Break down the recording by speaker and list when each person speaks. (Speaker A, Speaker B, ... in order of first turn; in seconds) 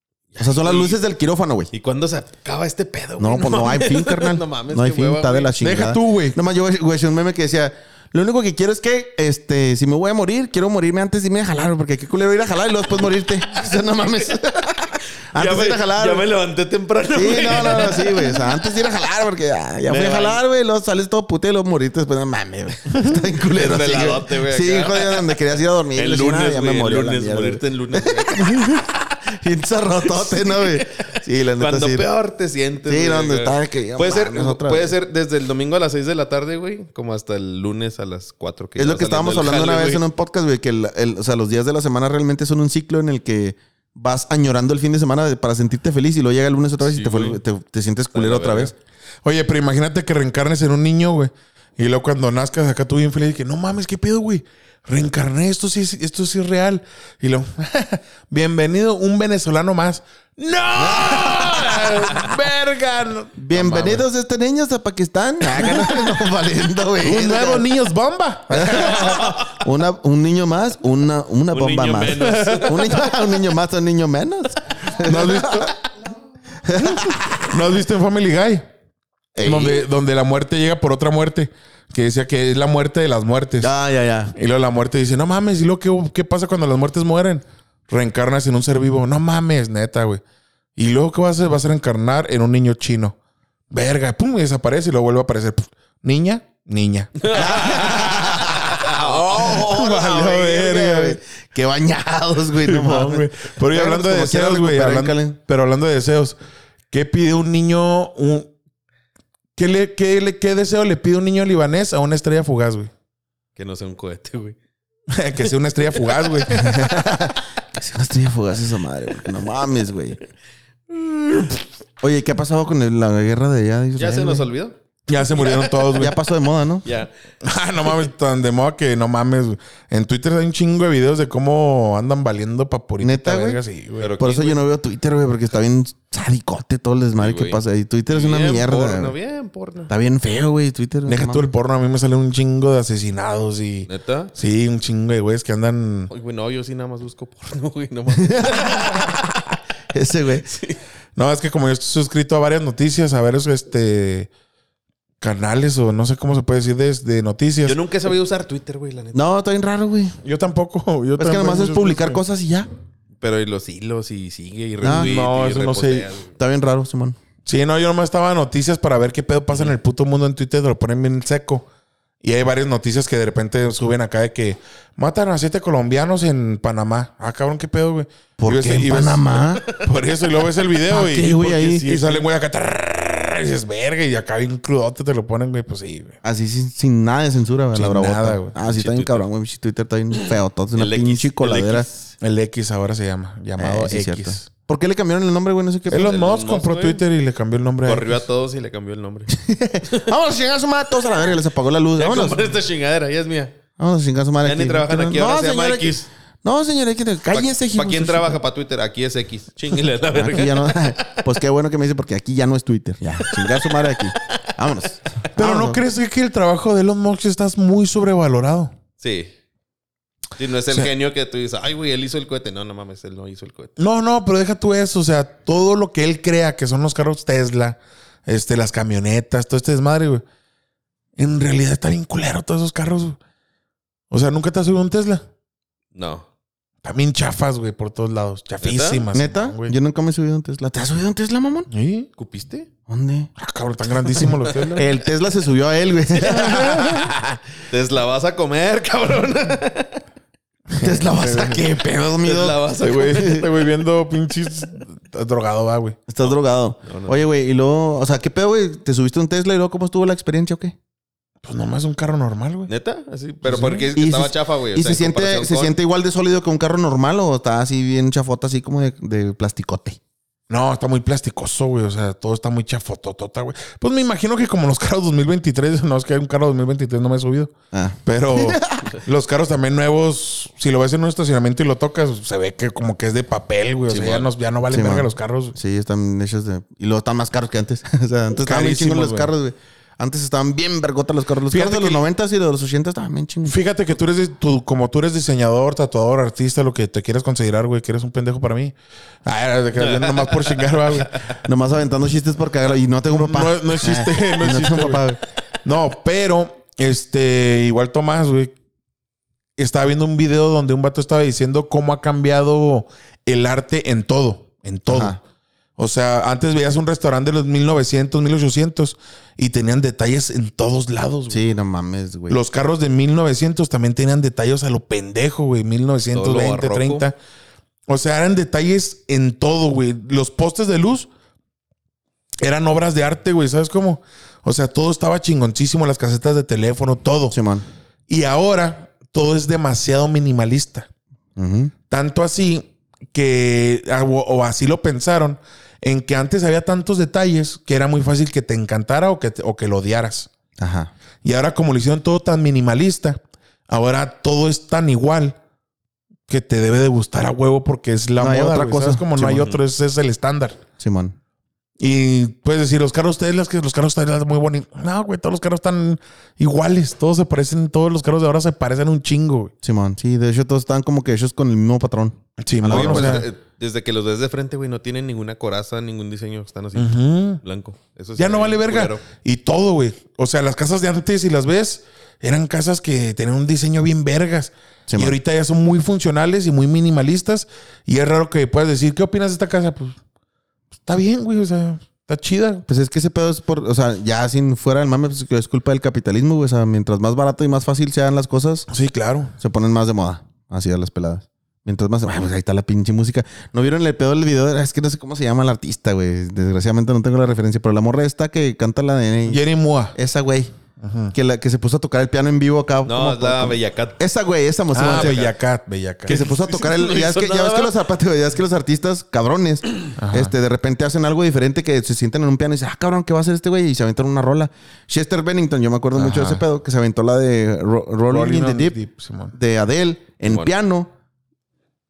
Speaker A: 0.3-1.0, 1.7-5.6, 15.3-18.6, 19.9-20.4, 23.4-28.5, 30.0-31.0, 31.6-40.0, 46.8-47.4, 48.1-48.7, 69.0-69.3, 71.5-73.2, 97.2-99.6, 113.6-114.6, 121.0-121.6, 124.0-124.8, 126.8-127.1, 134.0-134.6, 137.2-139.9, 143.9-144.3, 146.1-149.2, 150.4-150.8, 157.7-159.2, 163.2-166.3, 181.2-182.2, 188.7-189.3, 190.2-192.1, 196.0-197.0, 197.8-199.3, 202.0-203.5, 204.4-206.1, 207.3-211.2, 213.2-214.0, 219.0-219.3, 220.4-223.8, 235.9-236.3, 238.6-239.1, 242.2-242.7, 244.3-244.8, 247.7-250.0, 252.2-253.6, 256.2-257.2, 262.7-265.8, 283.9-284.3, 299.8-301.4, 326.1-327.1, 372.7-379.0, 412.9-414.0, 414.8-415.3, 416.1-417.7
Speaker B: 0.4-1.7, 3.2-16.2, 17.1-32.1, 32.9-34.9, 38.8-48.8, 60.8-62.1, 63.4-67.7, 68.5-75.7, 76.7-77.4, 79.3-79.8, 83.6-84.3, 97.3-105.4, 116.6-120.2, 122.0-124.5, 125.9-126.9, 133.0-133.6, 134.2-139.2, 139.9-141.5, 148.2-150.5, 159.1-160.2, 161.2-162.7, 164.8-165.1, 166.4-167.2, 178.4-179.7, 180.9-181.9, 186.2-191.9, 193.6-196.2, 199.3-202.5, 203.8-208.4, 210.2-215.8, 239.1-241.7, 242.9-243.3, 244.8-247.4, 250.8-253.4, 256.1-260.8, 263.9-270.0, 277.7-278.9, 284.7-293.6, 301.4-305.2, 314.9-315.2, 321.3-322.4, 337.3-337.6, 341.4-341.7, 350.6-350.9, 358.2-359.5, 360.8-361.1, 369.6-373.3, 384.9-385.2, 392.7-398.7, 399.4-409.4, 409.9-410.5, 411.1-415.2, 416.1-428.8, 429.3-430.9
Speaker C: 5.6-6.4, 49.2-64.0, 65.5-66.0, 67.0-69.4, 75.0-75.7, 76.7-78.7, 79.4-83.7, 84.3-90.2, 90.8-93.2, 93.7-97.3, 99.3-101.2, 102.7-106.4, 106.9-108.5, 109.6-112.9, 115.1-117.3, 125.1-126.2, 127.4-134.1, 141.1-146.1, 151.2-154.3, 155.2-157.8, 160.2-162.2, 164.8-166.1, 167.4-171.7, 172.2-186.2, 187.7-188.5, 192.2-194.5, 195.9-198.2, 215.4-218.7, 223.8-230.2, 231.2-233.2, 234.1-235.2, 236.8-239.8, 241.7-242.1, 243.4-244.9, 246.3-247.1, 250.7-251.6, 252.8-256.0, 261.4-262.7, 263.4-263.9, 270.5-277.5, 278.1-285.6, 288.4-289.3, 291.5-292.0, 293.5-301.1, 303.2-305.0, 305.6-308.5, 309.6-315.2, 315.8-321.4, 322.3-327.2, 327.9-331.1, 332.4-337.4, 338.1-340.9, 341.9-350.3, 351.2-355.4, 356.3-360.6, 361.8-369.5, 372.4-373.3, 376.8-377.4, 378.2-390.0, 390.8-392.6, 398.7-399.3, 409.3-410.0, 410.8-411.1, 414.7-416.2, 420.0-420.4, 425.9-426.4, 428.1-429.3